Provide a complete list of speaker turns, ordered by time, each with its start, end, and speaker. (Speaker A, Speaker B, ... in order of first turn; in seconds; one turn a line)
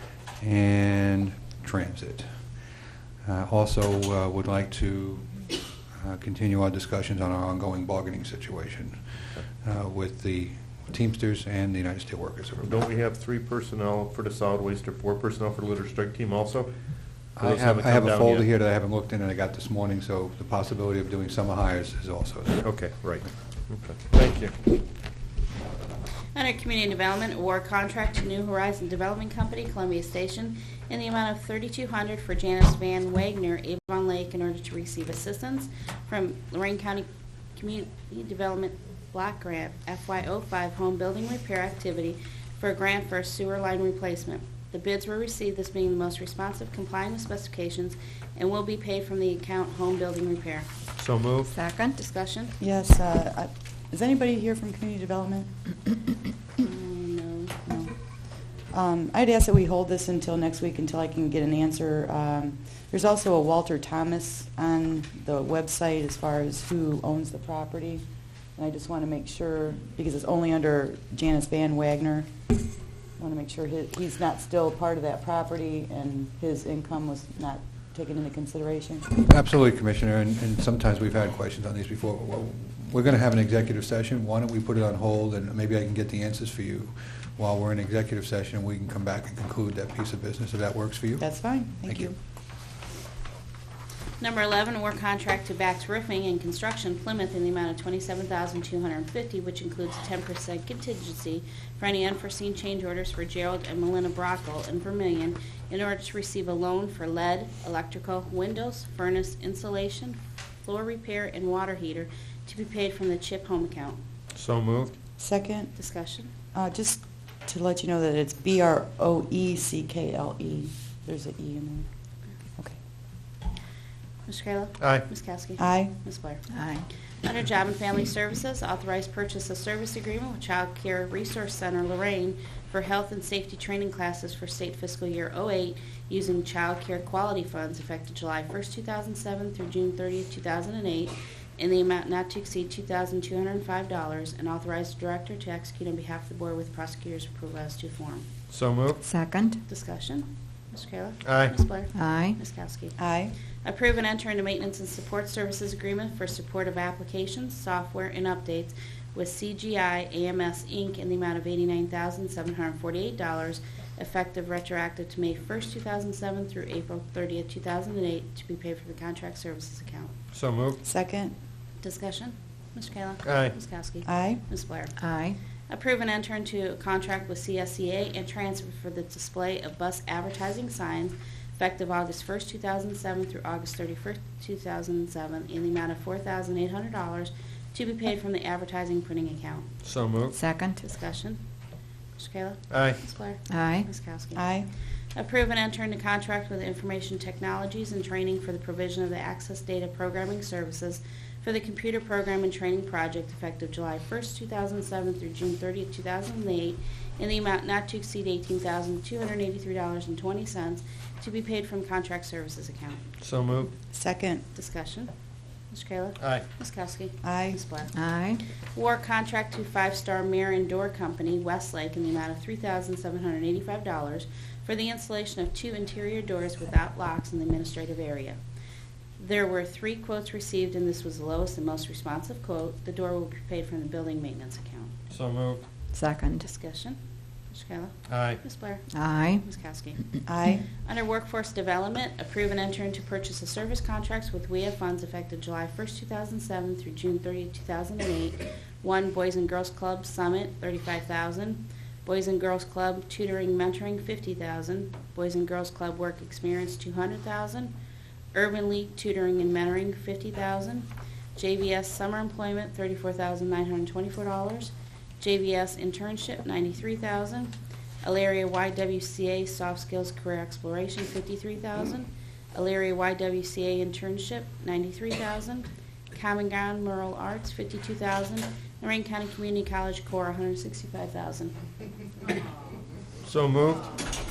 Speaker A: 0.4-2.3
Speaker A: 3.2-5.3
Speaker A: 5.9-9.0
Speaker A: 9.6-12.7
Speaker B: 12.6-16.7
Speaker A: 17.4-22.7
Speaker B: 17.4-18.4
Speaker B: 22.6-24.5
Speaker C: 26.3-50.7
Speaker B: 51.0-51.5
Speaker D: 51.5-52.0
Speaker C: 52.0-52.5
Speaker E: 52.6-55.5
Speaker C: 56.6-57.6
Speaker E: 57.7-57.9
Speaker E: 58.7-68.0
Speaker E: 68.5-72.3
Speaker E: 73.2-79.1
Speaker A: 79.2-91.3
Speaker E: 91.2-92.1
Speaker A: 91.8-92.1
Speaker C: 94.2-114.0
Speaker B: 114.3-114.9
Speaker E: 115.2-115.7
Speaker C: 115.8-116.3
Speaker E: 116.5-121.8
Speaker C: 124.3-126.4
Speaker B: 124.8-125.0
Speaker E: 125.6-125.9
Speaker D: 126.5-126.8
Speaker C: 127.2-148.3
Speaker B: 148.5-149.0
Speaker D: 149.0-149.6
Speaker C: 149.7-153.0
Speaker B: 151.2-151.5
Speaker D: 151.9-152.4
Speaker E: 153.0-153.3
Speaker C: 153.6-170.1
Speaker B: 170.3-170.8
Speaker E: 170.8-171.3
Speaker C: 171.8-174.9
Speaker B: 173.2-173.5
Speaker E: 174.1-174.4
Speaker D: 175.0-175.4
Speaker C: 175.7-189.7
Speaker B: 189.8-190.4
Speaker D: 190.3-190.8
Speaker C: 190.8-191.4
Speaker C: 192.2-194.5
Speaker B: 192.7-193.0
Speaker D: 193.5-193.9
Speaker E: 194.3-194.7
Speaker C: 195.1-213.0
Speaker B: 213.2-213.7
Speaker E: 213.9-214.4
Speaker C: 214.5-215.1
Speaker C: 215.7-217.9
Speaker B: 216.2-216.4
Speaker E: 217.2-217.6
Speaker D: 217.9-218.4
Speaker C: 218.7-228.4
Speaker C: 229.2-234.9
Speaker B: 235.1-235.6
Speaker D: 235.9-236.5
Speaker C: 236.4-237.0
Speaker C: 237.5-240.0
Speaker B: 238.1-238.4
Speaker D: 238.9-239.4
Speaker E: 240.2-240.7
Speaker C: 240.8-257.7
Speaker C: 258.3-281.5
Speaker B: 283.2-283.9